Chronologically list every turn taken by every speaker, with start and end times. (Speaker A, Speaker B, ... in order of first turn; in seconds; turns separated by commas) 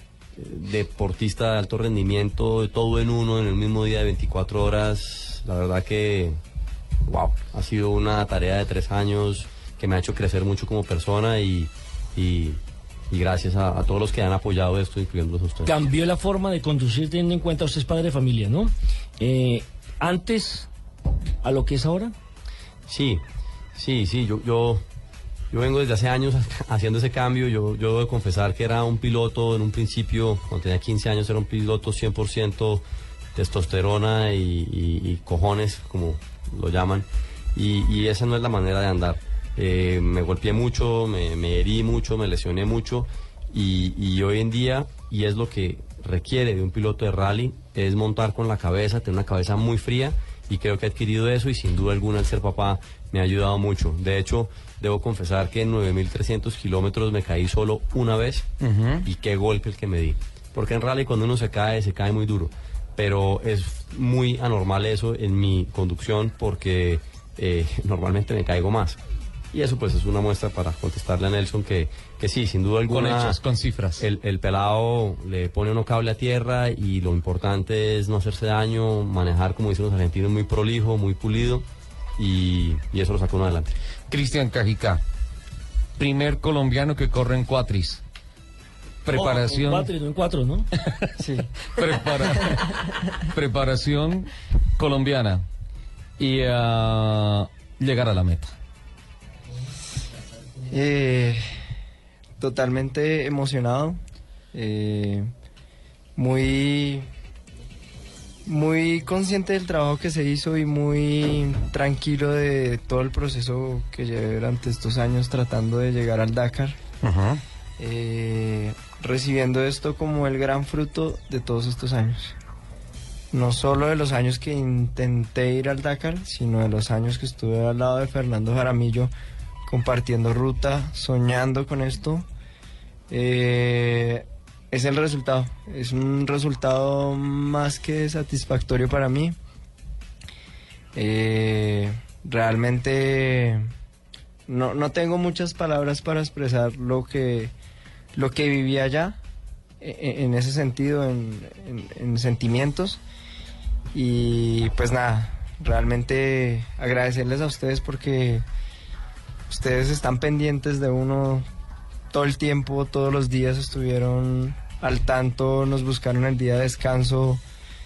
Speaker A: 0.4-6.4, Speaker A: 7.0-12.6, Speaker A: 13.1-15.8, Speaker B: 15.7-20.7, Speaker B: 21.4-22.1, Speaker A: 22.9-23.2, Speaker A: 23.8-24.8, Speaker A: 25.5-32.8, Speaker A: 33.4-58.5, Speaker C: 58.6-59.0, Speaker A: 59.0-69.0, Speaker A: 69.5-73.4, Speaker C: 72.9-74.0, Speaker A: 74.0-81.6, Speaker A: 82.2-83.7, Speaker C: 84.1-85.0, Speaker C: 86.0-88.0, Speaker C: 89.0-89.9, Speaker B: 89.1-90.7, Speaker D: 91.2-91.5, Speaker C: 91.8-95.4, Speaker C: 96.2-98.5, Speaker D: 100.7-101.4, Speaker D: 102.4-104.0, Speaker D: 104.5-105.3, Speaker D: 106.2-107.0, Speaker D: 108.5-116.8, Speaker C: 117.0-117.4, Speaker D: 117.8-122.3, Speaker D: 123.3-129.1, Speaker D: 129.7-132.2, Speaker D: 133.1-139.4, Speaker D: 140.9-143.6, Speaker D: 144.5-147.5, Speaker D: 148.1-149.2, Speaker D: 149.8-153.0, Speaker D: 153.9-158.4, Speaker D: 159.5-161.4, Speaker D: 162.1-167.4